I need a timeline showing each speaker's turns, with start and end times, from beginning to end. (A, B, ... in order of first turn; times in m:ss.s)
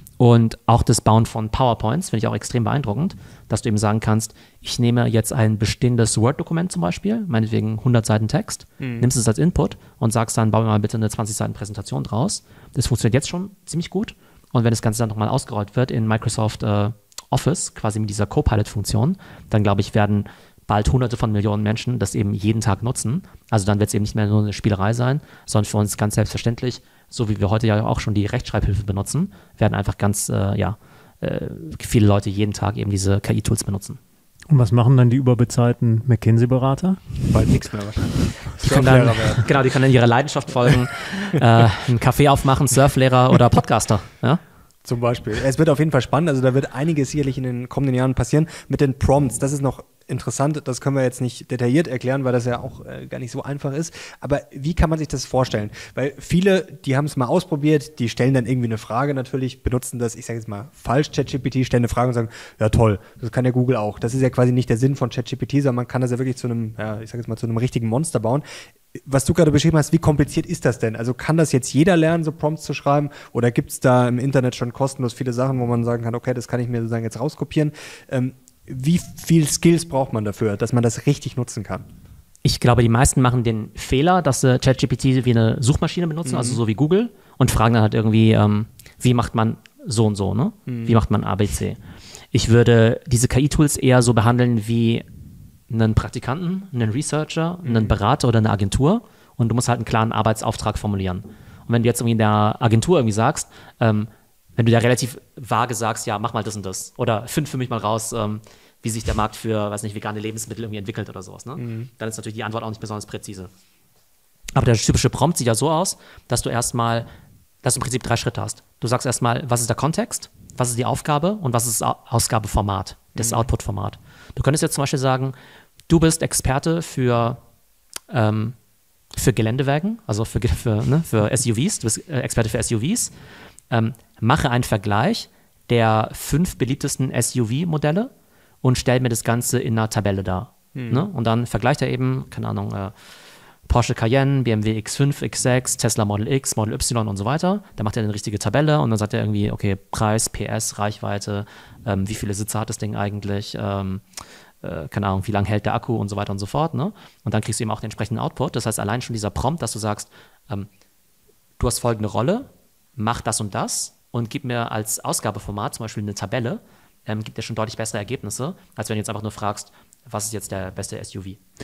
0:00.2-0:34.0 A
0:08.8-0:09.1 B
0:34.5-0:37.0 C
0:37.3-0:39.5 B
0:38.6-0:44.4 A
0:44.8-1:08.4 B
1:09.0-1:21.9 B
1:22.4-1:31.8 A
1:26.2-1:26.6 B
1:30.7-1:31.0 B
1:32.3-1:35.0 A
1:35.7-1:53.5 A
1:37.6-1:37.9 B
1:51.6-1:51.9 B
1:54.5-1:57.1 A
1:57.6-2:05.3 A
2:03.2-2:03.5 B
2:05.9-2:07.4 A
2:08.1-2:08.6 A
2:09.1-2:13.1 A
2:13.7-2:18.1 A
2:18.6-2:22.9 A
2:20.8-2:21.1 B
2:23.7-2:34.0 A
2:34.6-2:40.7 A
2:41.6-2:51.4 A